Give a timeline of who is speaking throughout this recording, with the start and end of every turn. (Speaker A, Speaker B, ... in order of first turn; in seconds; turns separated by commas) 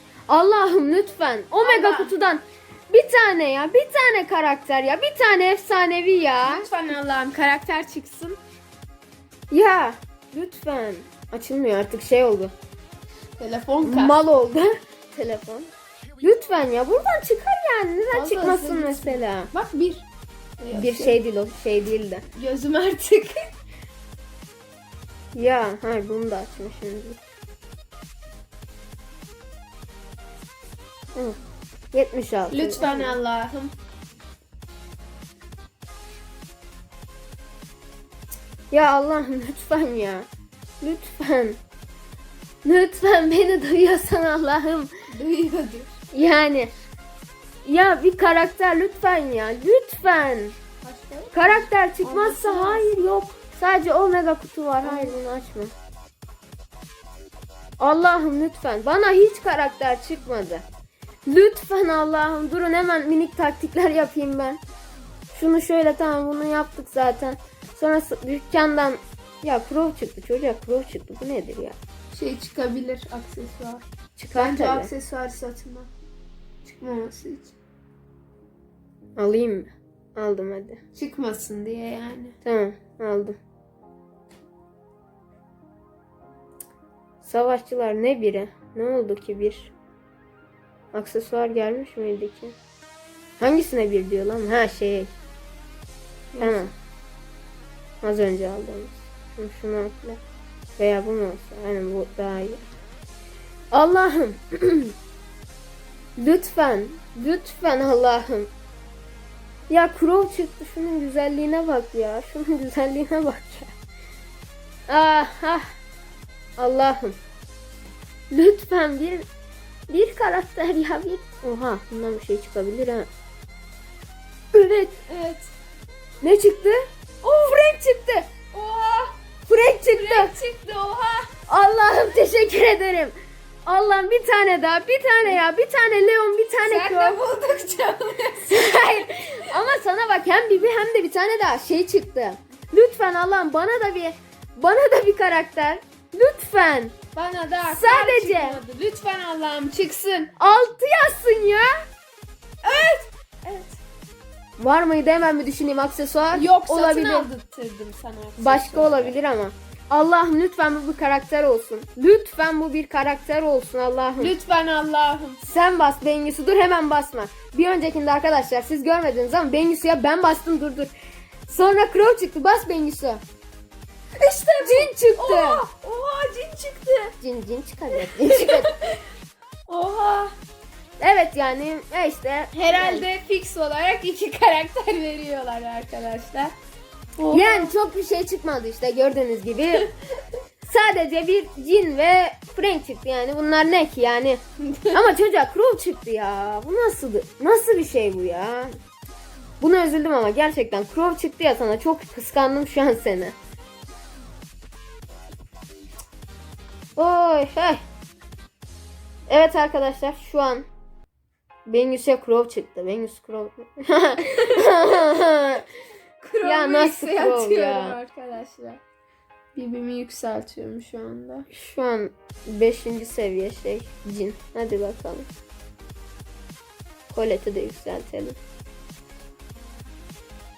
Speaker A: 0.3-6.7, Speaker B: 1.6-2.1, Speaker B: 6.4-8.4, Speaker A: 9.5-12.5, Speaker B: 13.4-14.2, Speaker A: 13.8-15.7, Speaker A: 16.2-19.5, Speaker B: 18.1-20.1, Speaker B: 20.6-21.2, Speaker A: 20.7-22.2, Speaker B: 22.4-23.4, Speaker A: 25.3-27.2, Speaker A: 31.9-33.1, Speaker B: 32.5-33.7, Speaker A: 38.7-40.3, Speaker A: 40.8-41.6, Speaker A: 42.6-44.9, Speaker B: 45.1-45.9, Speaker A: 46.1-46.7, Speaker A: 47.6-50.6, Speaker B: 50.8-53.0, Speaker A: 51.3-55.7, Speaker B: 54.8-55.2, Speaker A: 57.8-60.6, Speaker A: 61.2-64.6, Speaker A: 65.3-71.8, Speaker B: 72.1-73.8, Speaker A: 74.2-74.9, Speaker B: 74.3-75.9, Speaker B: 76.6-77.5, Speaker A: 79.2-80.8, Speaker B: 80.9-82.4, Speaker A: 82.4-83.4, Speaker A: 87.2-89.7, Speaker A: 90.9-92.5, Speaker A: 93.4-95.1, Speaker B: 96.3-96.7, Speaker A: 96.4-96.7, Speaker A: 98.0-100.2, Speaker A: 100.8-102.6, Speaker A: 103.7-104.9, Speaker A: 106.2-108.5, Speaker A: 109.7-113.7, Speaker A: 114.9-115.7, Speaker A: 116.6-117.2, Speaker A: 118.3-119.2, Speaker A: 119.9-123.1, Speaker A: 124.5-125.0, Speaker B: 125.1-125.5, Speaker A: 126.2-128.3, Speaker B: 128.5-129.2, Speaker A: 129.5-130.3, Speaker B: 129.9-131.3, Speaker A: 131.5-133.1, Speaker A: 133.7-137.2, Speaker B: 136.6-138.6, Speaker A: 138.5-147.0, Speaker B: 147.1-150.3, Speaker A: 147.7-148.6, Speaker A: 150.4-151.8, Speaker B: 152.6-153.8, Speaker A: 154.6-157.3, Speaker B: 156.3-159.2, Speaker A: 158.4-164.3, Speaker B: 164.2-165.4, Speaker A: 165.4-170.9, Speaker A: 171.5-173.2, Speaker B: 174.2-177.1, Speaker A: 174.6-175.6, Speaker A: 177.2-178.7, Speaker B: 177.9-179.0, Speaker B: 179.7-180.3, Speaker A: 181.0-183.1, Speaker B: 182.5-186.5, Speaker B: 187.2-187.7, Speaker A: 187.3-189.8, Speaker A: 190.7-198.7, Speaker B: 194.7-195.0, Speaker A: 199.6-203.3, Speaker A: 206.9-207.8, Speaker A: 209.3-210.7, Speaker A: 211.7-215.6, Speaker B: 216.2-218.8, Speaker A: 216.4-218.0, Speaker B: 219.5-221.5, Speaker A: 221.5-225.3, Speaker A: 227.1-228.4